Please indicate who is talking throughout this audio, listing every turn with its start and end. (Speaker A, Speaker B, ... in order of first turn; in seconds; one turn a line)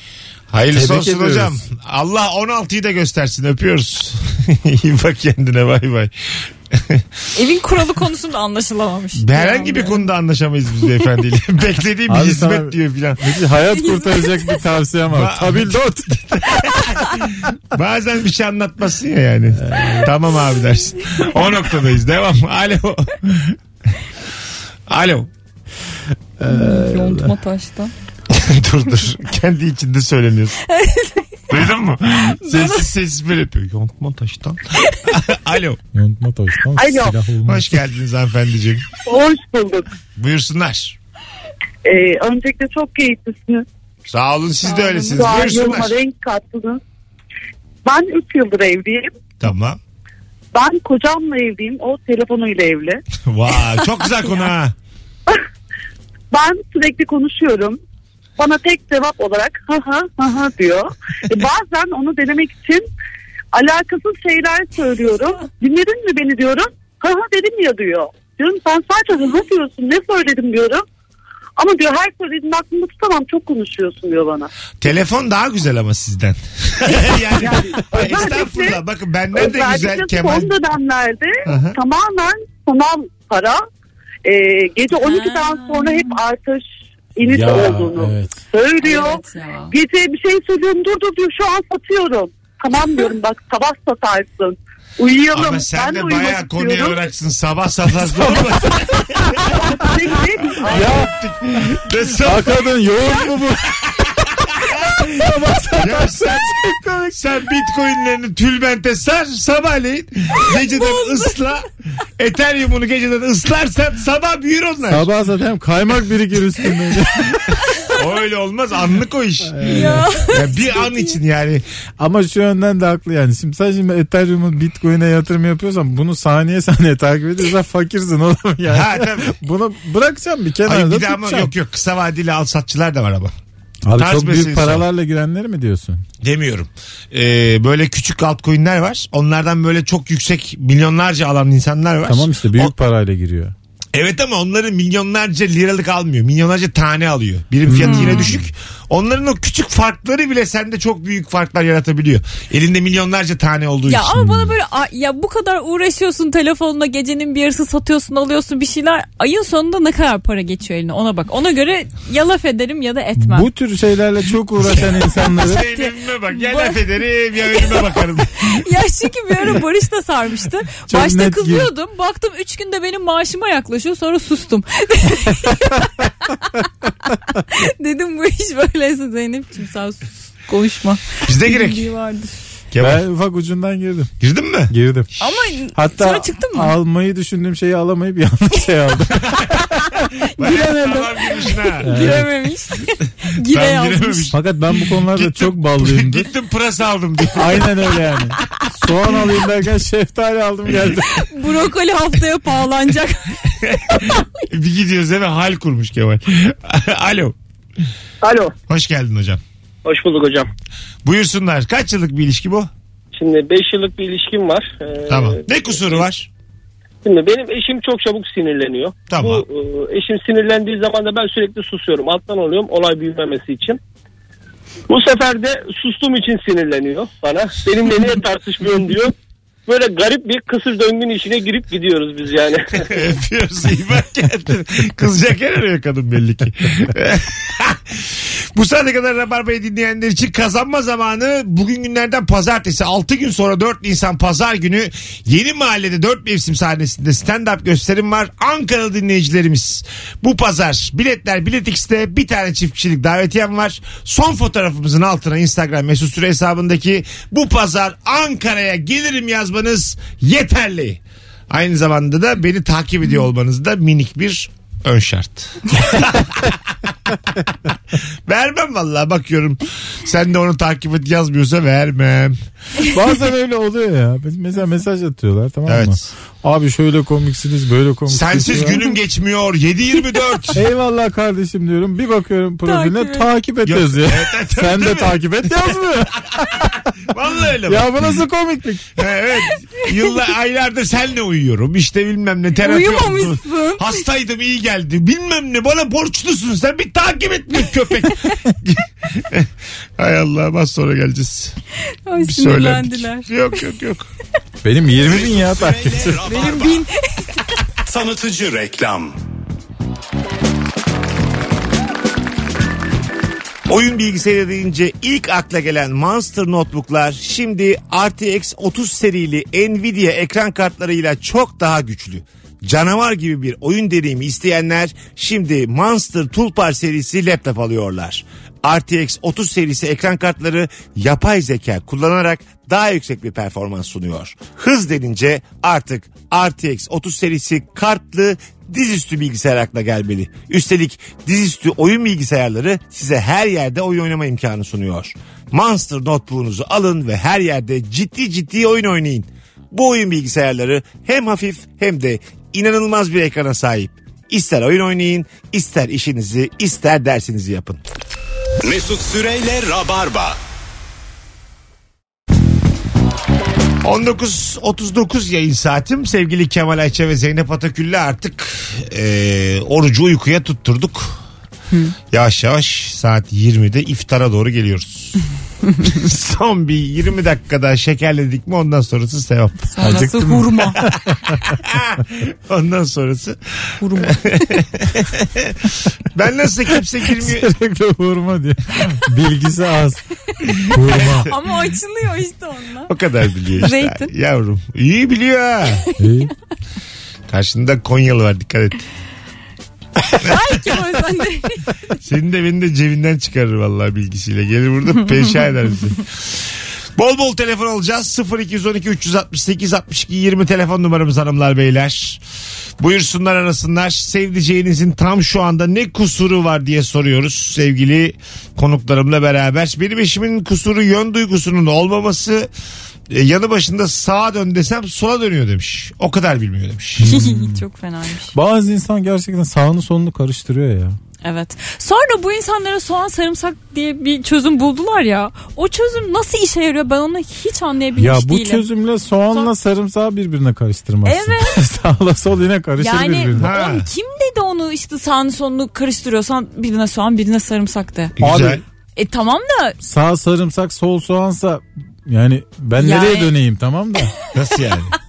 Speaker A: 0.5-7.0
Speaker B: 0.7-1.6
Speaker C: 7.3-10.1
Speaker A: 9.2-13.2
Speaker B: 12.1-16.2
Speaker C: 13.7-14.7
Speaker A: 15.1-23.6
Speaker B: 19.6-20.1
Speaker A: 24.9-25.3
Speaker B: 26.4-27.3
Speaker C: 26.5-27.9
Speaker A: 28.3-30.6
Speaker C: 30.6-31.6
Speaker A: 31.5-35.8
Speaker C: 32.4-32.9
Speaker B: 35.9-37.8
Speaker D: 36.8-37.1
Speaker A: 37.5-38.8
Speaker D: 39.0-39.9
Speaker A: 40.2-41.0
Speaker D: 41.8-43.6
Speaker A: 44.1-45.9
Speaker C: 44.6-45.3
Speaker D: 45.1-46.8
Speaker D: 47.8-49.1
Speaker A: 49.4-49.8
Speaker D: 50.5-53.0
Speaker A: 53.2-54.7
Speaker D: 56.3-57.8
Speaker D: 58.4-62.8
Speaker D: 63.5-70.8
Speaker D: 71.6-74.5
Speaker A: 74.8-80.5
Speaker D: 77.4-78.8
Speaker D: 79.3-83.6
Speaker A: 81.5-81.8
Speaker D: 84.2-86.6
Speaker C: 84.9-86.2
Speaker D: 87.2-97.0
Speaker B: 87.2-88.4
Speaker C: 88.8-89.7
Speaker A: 95.3-99.6
Speaker B: 98.0-99.4
Speaker D: 99.5-101.0
Speaker A: 100.7-102.5
Speaker B: 100.7-101.1
Speaker B: 102.2-104.0
Speaker A: 103.8-105.2
Speaker B: 104.7-107.2
Speaker A: 105.8-106.6
Speaker A: 107.1-111.7
Speaker C: 110.4-111.5
Speaker A: 112.2-115.1
Speaker B: 114.9-117.3
Speaker A: 117.4-121.6
Speaker B: 119.5-120.1
Speaker C: 119.6-121.2
Speaker B: 122.0-131.5
Speaker A: 128.7-129.3
Speaker A: 130.7-133.3
Speaker B: 133.8-136.0
Speaker A: 134.0-134.8
Speaker A: 136.2-142.7
Speaker B: 142.0-143.5
Speaker A: 143.9-154.2
Speaker B: 147.7-148.4
Speaker C: 147.8-148.4
Speaker C: 153.9-163.5
Speaker B: 154.2-154.5
Speaker B: 163.2-165.7
Speaker A: 165.3-168.6
Speaker C: 165.5-166.8
Speaker C: 167.4-182.4
Speaker B: 170.9-171.7
Speaker A: 181.2-181.9
Speaker A: 182.7-183.0
Speaker B: 182.8-184.1
Speaker A: 184.2-184.7
Speaker B: 184.7-185.1
Speaker C: 185.2-186.8
Speaker B: 185.7-189.8
Speaker A: 189.2-189.6
Speaker A: 190.3-191.9
Speaker C: 190.4-194.3
Speaker B: 191.8-192.3
Speaker A: 193.4-198.0
Speaker B: 194.3-196.3
Speaker B: 197.3-201.3
Speaker C: 201.0-204.2
Speaker A: 203.6-207.3
Speaker E: 208.2-208.5
Speaker A: 208.7-209.4
Speaker E: 209.8-210.5
Speaker A: 211.0-212.7
Speaker E: 213.1-216.1
Speaker A: 215.1-216.3
Speaker E: 217.0-223.8
Speaker A: 219.1-219.4
Speaker E: 224.9-229.1
Speaker E: 229.7-232.9
Speaker A: 232.8-267.1
Speaker A: 268.3-272.4
Speaker B: 272.9-278.9
Speaker A: 275.6-276.1
Speaker A: 278.1-280.6
Speaker B: 280.5-286.9
Speaker C: 282.6-283.3
Speaker A: 283.6-285.5
Speaker A: 286.6-288.2
Speaker B: 287.6-288.9
Speaker A: 289.0-301.6
Speaker C: 292.6-294.1
Speaker C: 302.1-303.6
Speaker A: 302.2-304.1
Speaker B: 304.6-306.2
Speaker F: 304.9-306.8
Speaker C: 306.2-307.7
Speaker F: 307.8-309.1
Speaker A: 313.7-357.8
Speaker F: 358.6-360.4
Speaker A: 363.8-371.2
Speaker A: 372.1-375.2
Speaker A: 375.8-379.7
Speaker C: 379.7-380.8
Speaker B: 379.8-381.4
Speaker A: 380.8-387.5
Speaker C: 383.8-384.4
Speaker B: 387.0-390.0
Speaker A: 390.5-391.3
Speaker B: 390.6-391.3
Speaker C: 391.3-392.9
Speaker A: 392.9-395.9
Speaker C: 393.5-394.1
Speaker B: 396.0-396.3
Speaker A: 397.3-398.9
Speaker C: 400.0-401.9
Speaker A: 402.0-406.3
Speaker A: 407.0-412.2
Speaker A: 412.8-422.5
Speaker A: 423.1-427.1
Speaker B: 427.0-427.6
Speaker C: 427.0-428.4
Speaker B: 428.3-431.0
Speaker C: 431.2-438.6
Speaker B: 438.0-443.5
Speaker C: 441.0-441.7
Speaker C: 442.8-448.2
Speaker A: 443.4-443.9
Speaker A: 448.2-448.6
Speaker B: 448.2-448.6
Speaker C: 448.9-449.8
Speaker B: 449.8-454.1
Speaker C: 452.8-453.3
Speaker A: 454.3-454.9